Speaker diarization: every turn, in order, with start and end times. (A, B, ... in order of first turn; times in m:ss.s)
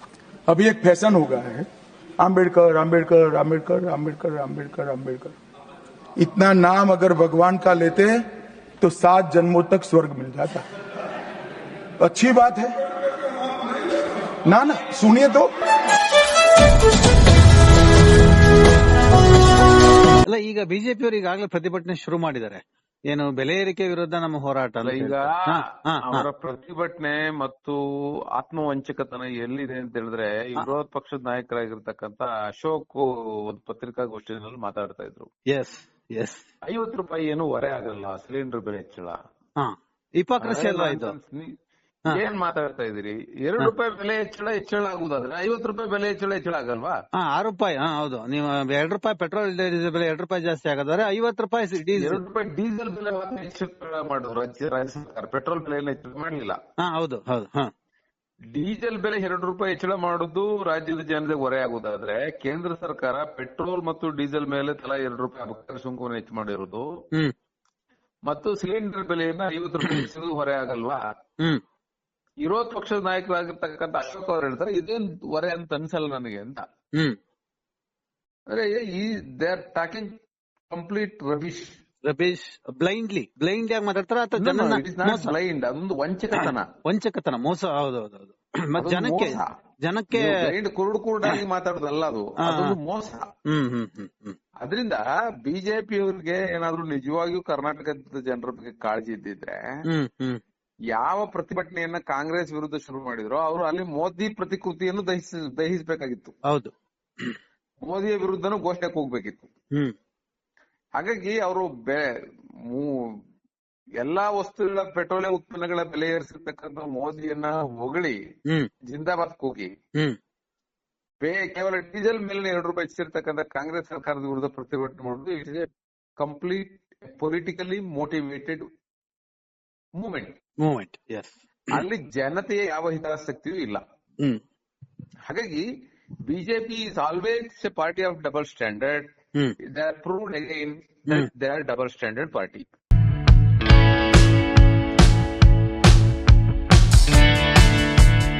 0:00.5-0:01.7 A
0:02.2-0:05.4 A
0:06.2-0:08.2 A
0:08.8-0:10.6 A
0:12.0-0:12.7 A
0:14.5-0:15.5 A
0:20.2-0:26.2 B
0:24.8-0:27.8 C
0:28.4-0:35.3 C
0:35.5-0:36.4 B
0:36.6-0:39.2 C
0:39.6-0:41.2 B
0:40.4-0:41.5 C
0:42.1-0:47.0 C
0:47.2-0:52.2 B
0:52.0-0:56.6 C
0:56.8-0:57.7 B
0:58.5-1:06.9 C
1:08.3-1:11.0 C
1:09.8-1:10.1 B
1:12.4-1:16.6 C
1:18.5-1:20.2 C
1:20.7-1:21.8 C
1:22.0-1:25.3 B
1:24.4-1:26.7 C
1:26.3-1:30.5 B
1:28.8-1:29.5 C
1:30.1-1:33.3 C
1:32.4-1:32.8 B
1:33.5-1:34.4 B
1:34.6-1:39.7 C
1:39.9-1:40.4 B
1:40.9-1:46.4 C
1:46.5-1:47.4 B
1:47.8-1:49.5 C
1:51.0-1:52.1 C
1:52.6-1:53.2 C
1:54.0-1:58.2 C
1:58.9-1:59.7 C
2:01.2-2:05.7 C
2:06.2-2:08.6 C
2:10.0-2:10.4 C
2:10.6-2:11.8 B
2:11.7-2:13.8 C
2:15.3-2:15.7 C
2:16.2-2:19.1 C
2:19.6-2:22.7 C